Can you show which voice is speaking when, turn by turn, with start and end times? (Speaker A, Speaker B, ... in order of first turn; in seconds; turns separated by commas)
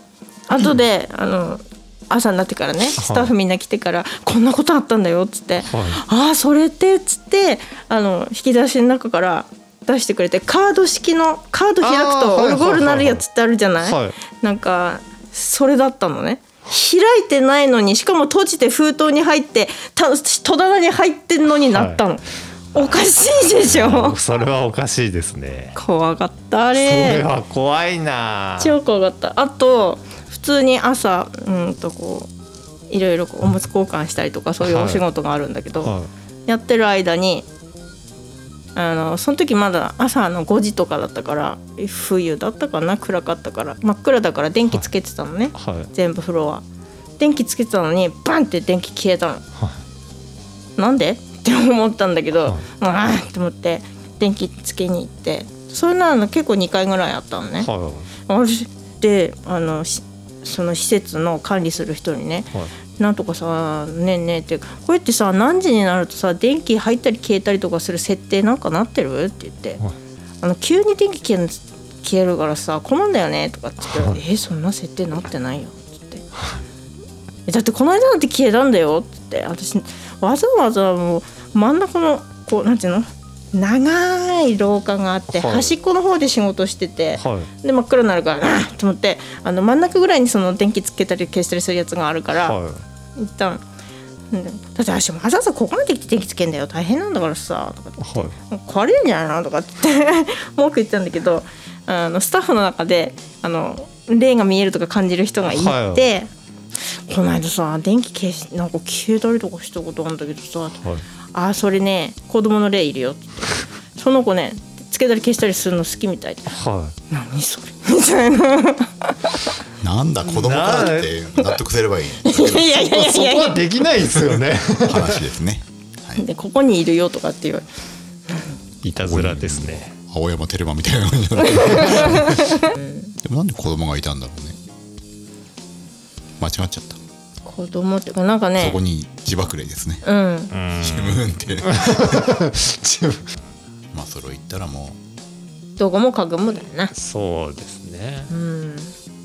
Speaker A: 0.5-24.2, Speaker B: 3.0-3.3, Speaker B: 5.7-6.0, Speaker B: 11.8-13.2, Speaker B: 13.8-14.2, Speaker B: 21.7-22.0, Speaker B: 23.5-25.8, Speaker A: 25.8-27.2, Speaker B: 26.8-28.8, Speaker A: 28.6-32.3, Speaker A: 32.9-35.9, Speaker B: 34.6-35.0, Speaker B: 35.8-36.1, Speaker A: 36.5-37.5, Speaker A: 38.8-46.6, Speaker B: 45.6-45.9, Speaker A: 47.2-49.4, Speaker A: 50.8-57.7, Speaker B: 57.6-58.1, Speaker A: 58.3-69.8, Speaker A: 70.4-76.2, Speaker B: 73.9-74.2, Speaker A: 77.5-92.6, Speaker B: 85.3-85.7, Speaker B: 87.2-87.5, Speaker B: 92.4-92.8, Speaker A: 93.2-93.6, Speaker A: 94.3-110.8, Speaker B: 98.0-98.3, Speaker B: 105.5-106.1, Speaker A: 111.3-116.6, Speaker B: 116.5-116.9, Speaker A: 117.1-119.3, Speaker C: 119.8-122.7, Speaker B: 120.3-121.2, Speaker A: 122.2-123.6, Speaker B: 122.5-125.2, Speaker C: 124.8-126.2, Speaker A: 126.2-127.7, Speaker A: 128.3-128.6, Speaker B: 128.8-129.9, Speaker C: 129.0-132.6, Speaker A: 131.5-133.1, Speaker C: 133.2-134.6, Speaker C: 136.4-137.0, Speaker A: 137.5-138.8, Speaker C: 138.6-140.0, Speaker A: 140.0-140.5, Speaker B: 140.5-143.3, Speaker C: 140.8-142.3, Speaker C: 143.9-145.0, Speaker A: 145.8-146.9, Speaker B: 146.9-148.3, Speaker A: 148.3-148.9